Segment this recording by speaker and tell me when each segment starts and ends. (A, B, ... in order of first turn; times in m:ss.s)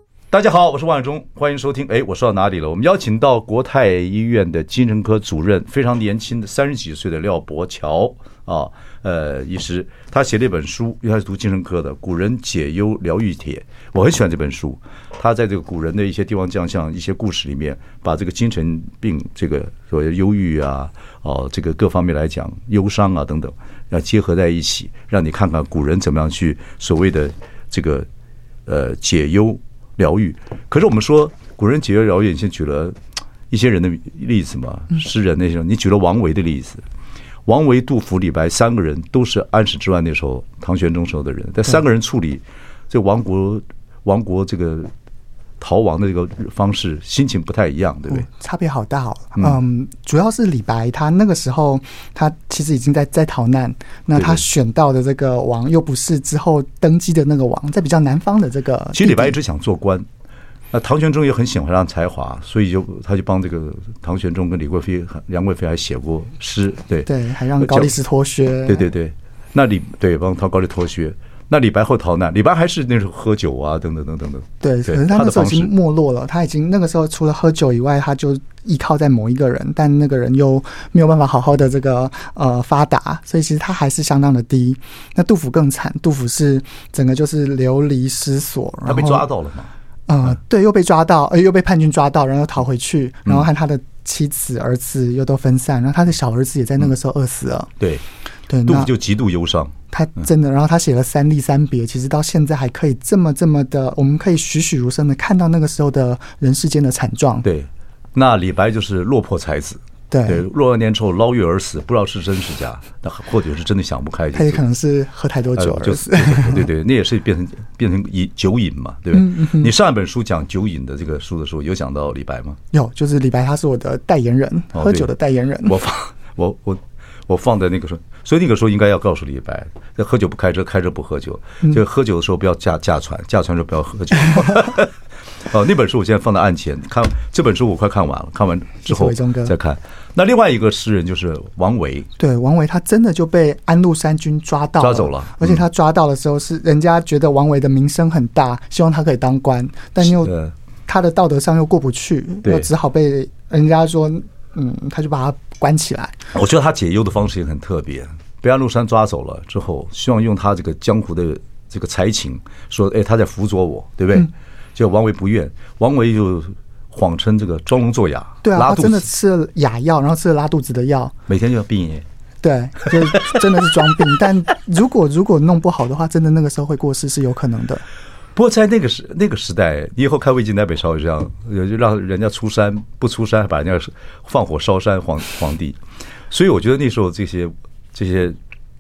0:00.3-0:28.1 A
0:28.7-0:33.0 A
0:33.5-0:36.8 A
0:37.5-0:44.9 A
0:45.6-0:48.3 A
0:48.1-0:59.4 B
0:54.2-0:54.4 A
0:58.9-1:00.1 A
1:00.7-1:07.1 A
1:07.1-1:08.9 B
1:07.6-1:07.9 A
1:08.7-1:15.7 A
1:14.6-1:29.3 B
1:28.9-1:29.7 A
1:30.1-1:37.7 B
1:38.5-1:38.9 B
1:38.7-1:40.2 A
1:39.9-1:47.5 B
1:47.4-1:54.6 A
1:50.1-1:50.4 B
1:54.3-1:56.7 B
1:55.6-2:02.6 A
1:59.1-1:59.7 B
2:02.7-2:05.8 B
2:04.7-2:05.1 A
2:05.6-2:14.9 A
2:15.5-2:22.1 A
2:18.8-2:19.5 B
2:22.2-2:30.3 B
2:24.8-2:25.6 A
2:30.0-2:30.5 A
2:30.9-2:36.2 B
2:32.4-2:32.7 A
2:36.3-2:49.1 A
2:48.4-2:51.1 B
2:51.3-2:52.1 A
2:52.4-2:57.8 B
2:52.9-2:53.4 A
2:58.4-3:05.8 A
3:06.3-3:08.4 A